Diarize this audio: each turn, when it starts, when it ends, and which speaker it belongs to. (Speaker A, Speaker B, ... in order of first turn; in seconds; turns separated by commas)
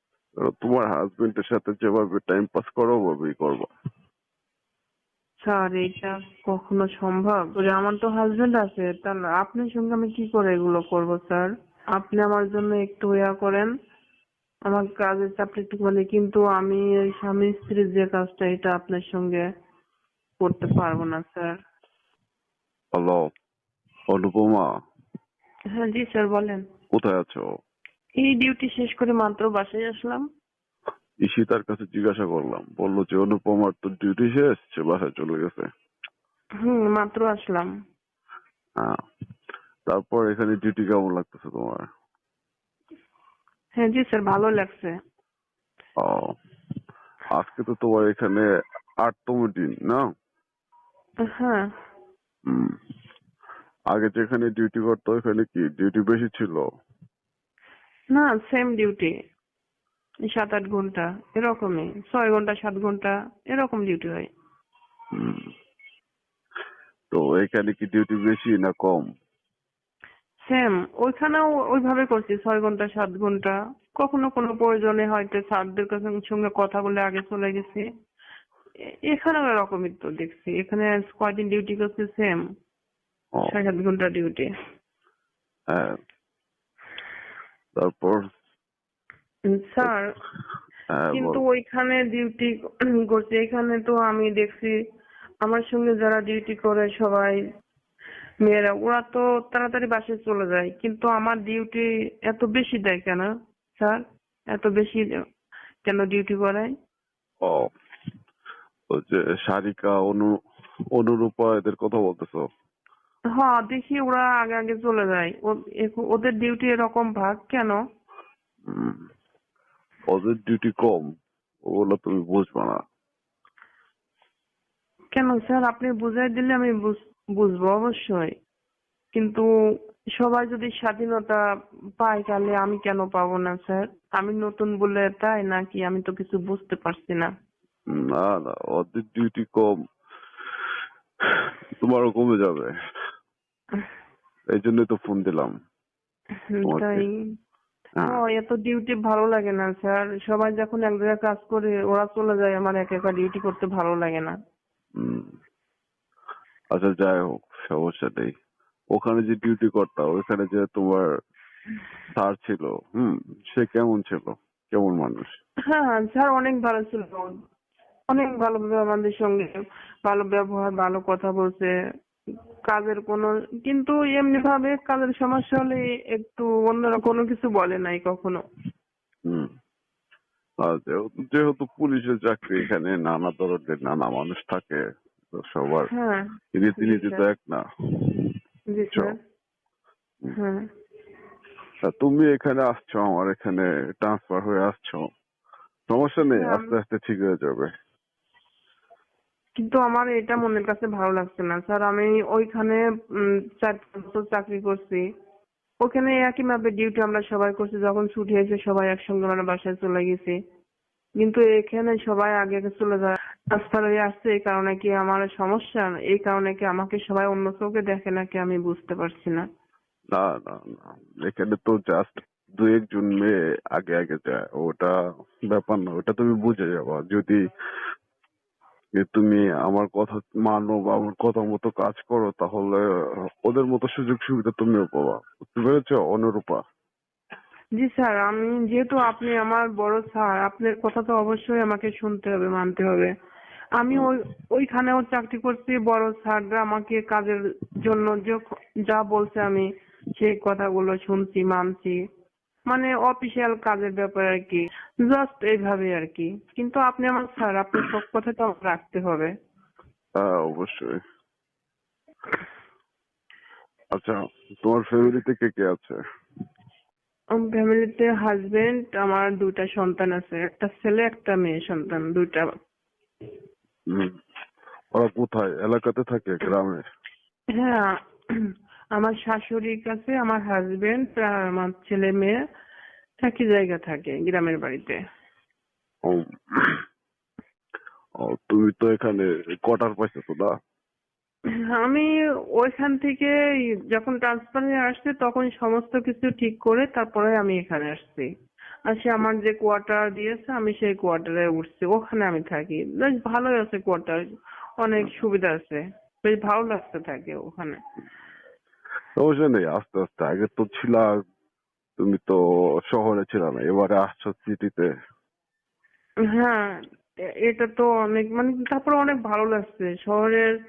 Speaker A: 0.4-3.7, Speaker B: 5.4-13.7, Speaker B: 14.7-19.4, Speaker B: 20.4-21.5, Speaker A: 22.9-23.2, Speaker A: 24.1-24.7, Speaker B: 25.7-26.6, Speaker A: 26.9-27.4, Speaker B: 28.2-30.2, Speaker A: 31.2-35.7, Speaker B: 36.6-37.7, Speaker A: 39.9-41.9, Speaker B: 43.8-44.9, Speaker A: 46.0-46.3, Speaker A: 47.3-48.5, Speaker A: 49.0-50.0, Speaker B: 51.3-51.6, Speaker A: 52.5-52.8, Speaker A: 53.9-56.6, Speaker B: 58.1-59.1, Speaker B: 60.3-64.3, Speaker A: 65.2-65.5, Speaker A: 67.1-69.0, Speaker B: 70.5-77.8, Speaker B: 79.1-82.4, Speaker B: 83.5-84.5, Speaker A: 85.7-86.0, Speaker A: 87.8-88.2, Speaker B: 89.5-90.1, Speaker A: 90.9-91.4, Speaker B: 91.2-92.6, Speaker B: 93.1-94.7, Speaker B: 95.4-97.4, Speaker B: 98.4-103.3, Speaker B: 104.5-105.0, Speaker B: 105.8-106.7, Speaker A: 108.9-110.3, Speaker A: 111.0-112.4, Speaker B: 113.4-117.8, Speaker A: 118.7-119.0, Speaker A: 120.1-121.1, Speaker A: 121.7-122.8, Speaker B: 125.2-128.3, Speaker B: 129.2-129.4, Speaker B: 130.2-131.4, Speaker B: 132.0-137.3, Speaker A: 137.9-139.7, Speaker A: 141.4-142.7, Speaker A: 144.5-145.5, Speaker B: 146.5-147.1, Speaker A: 146.7-147.1, Speaker B: 148.1-154.3, Speaker A: 155.0-155.3, Speaker A: 156.7-158.3, Speaker A: 158.9-161.1, Speaker A: 162.2-165.3, Speaker B: 165.7-167.3, Speaker B: 168.1-169.5, Speaker B: 170.1-171.7, Speaker B: 172.7-178.4, Speaker A: 180.6-185.9, Speaker B: 185.9-187.2, Speaker A: 186.5-188.3, Speaker B: 188.7-189.2, Speaker B: 190.3-190.6, Speaker A: 191.8-195.0, Speaker A: 195.9-197.7, Speaker B: 196.4-196.7, Speaker B: 199.6-205.0, Speaker B: 205.8-210.4, Speaker B: 211.2-219.4, Speaker A: 220.1-224.9, Speaker A: 225.5-227.4, Speaker A: 229.0-232.8, Speaker A: 233.4-236.6, Speaker B: 237.8-243.1, Speaker B: 243.8-252.0, Speaker B: 252.7-259.3, Speaker A: 260.2-261.0, Speaker A: 263.9-266.0, Speaker B: 267.4-272.5, Speaker A: 273.9-274.2, Speaker A: 274.9-276.8, Speaker B: 277.6-282.4, Speaker B: 283.2-285.0, Speaker A: 286.1-286.8, Speaker A: 288.2-290.5, Speaker B: 291.7-293.3, Speaker B: 293.9-298.3, Speaker B: 298.9-304.2, Speaker B: 304.8-307.8, Speaker A: 309.2-311.2, Speaker A: 312.0-312.4, Speaker A: 312.9-314.9, Speaker B: 316.3-316.8, Speaker B: 317.4-320.5